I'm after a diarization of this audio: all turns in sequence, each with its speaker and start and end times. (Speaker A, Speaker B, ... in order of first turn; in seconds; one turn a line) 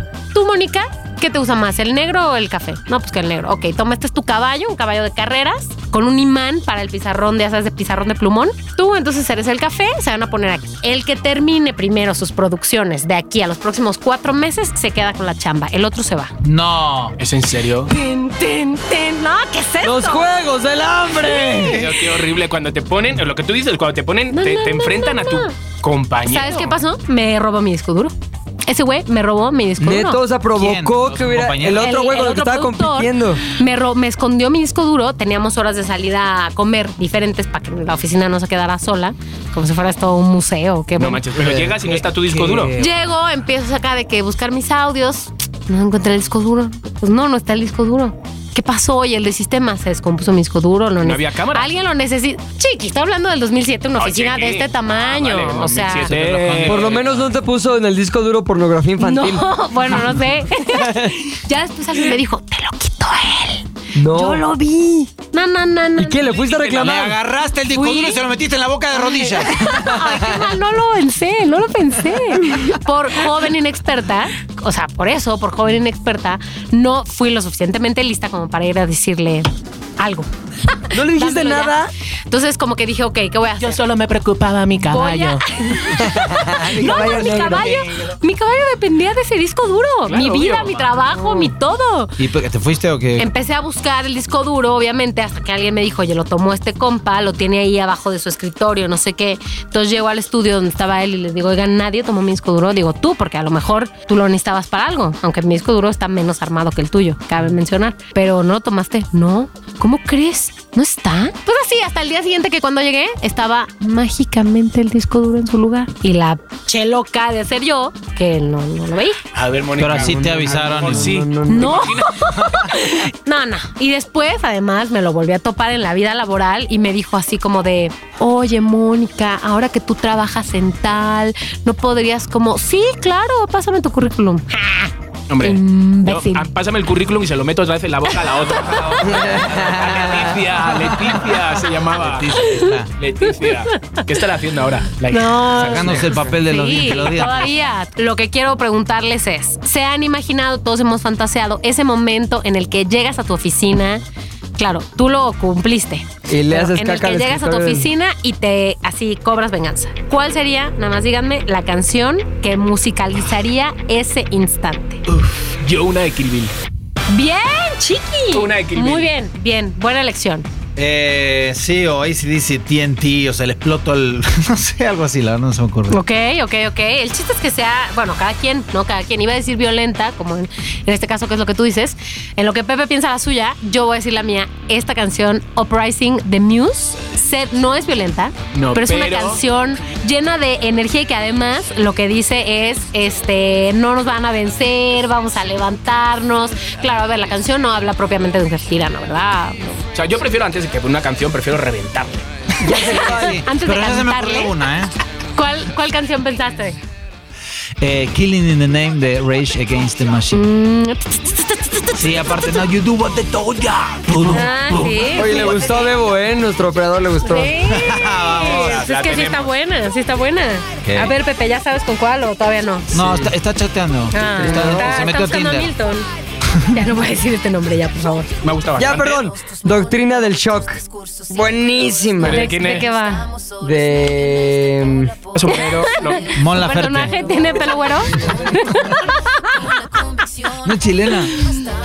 Speaker A: 0.3-16.3
Speaker B: 16.4-17.1
Speaker C: 17.2-17.9
Speaker A: 17.9-20.3
Speaker D: 19.8-22.0
Speaker B: 21.3-21.6
Speaker C: 21.6-26.8
Speaker A: 24.3-25.5
Speaker A: 26.2-28.1
Speaker A: 28.6-30.2
Speaker D: 29.8-33.4
Speaker B: 30.5-31.9
Speaker A: 31.8-41.2
Speaker C: 41.0-42.7
Speaker D: 41.4-41.8
Speaker B: 41.8-42.9
Speaker A: 42.8-56.1
Speaker C: 51.0-51.7
Speaker C: 54.0-57.0
Speaker B: 56.0-57.3
Speaker D: 56.6-59.5
Speaker A: 59.0-66.2
Speaker D: 60.5-61.2
Speaker D: 64.0-64.5
Speaker D: 66.0-67.2
Speaker C: 66.2-67.0
Speaker B: 66.8-70.6
Speaker A: 67.7-68.2
Speaker A: 68.9-81.8
Speaker B: 72.1-72.7
Speaker D: 80.9-81.9
Speaker A: 82.3-83.8
Speaker C: 83.6-85.4
Speaker A: 84.9-92.1
Speaker D: 86.0-87.7
Speaker B: 86.1-88.1
Speaker C: 90.1-90.8
Speaker D: 91.1-91.5
Speaker B: 92.2-93.3
Speaker A: 93.2-119.2
Speaker C: 119.3-122.2
Speaker B: 119.8-121.1
Speaker D: 119.9-121.9
Speaker A: 121.5-136.5
Speaker C: 135.3-146.1
Speaker A: 138.2-139.2
Speaker B: 138.6-142.9
Speaker D: 139.0-140.3
Speaker A: 142.3-142.7
Speaker A: 143.3-144.0
Speaker A: 145.1-154.0
Speaker B: 145.5-147.5
Speaker D: 146.0-146.4
Speaker A: 154.6-165.0
Speaker D: 156.3-157.9
Speaker C: 165.1-166.5
Speaker A: 167.1-170.5
Speaker C: 168.3-169.1
Speaker B: 170.8-176.0
Speaker A: 175.9-199.8
Speaker C: 188.5-189.4
Speaker C: 199.9-202.2
Speaker D: 202.6-203.4
Speaker B: 202.7-204.9
Speaker A: 202.7-204.5
Speaker A: 205.3-206.8
Speaker B: 207.8-210.5
Speaker A: 210.3-212.4
Speaker B: 211.9-215.6
Speaker A: 214.3-215.9
Speaker D: 215.1-217.6
Speaker A: 217.2-222.9
Speaker B: 217.7-218.8
Speaker C: 218.4-219.5
Speaker B: 220.8-221.1
Speaker B: 222.9-225.7
Speaker D: 222.9-223.3
Speaker A: 224.1-226.1
Speaker D: 224.3-224.9
Speaker A: 226.7-228.3
Speaker C: 228.4-229.3
Speaker D: 228.8-232.4
Speaker C: 232.2-232.9
Speaker A: 232.2-233.3
Speaker D: 233.6-235.9
Speaker C: 235.3-236.3
Speaker A: 235.5-240.2
Speaker B: 236.3-237.1
Speaker B: 240.6-241.4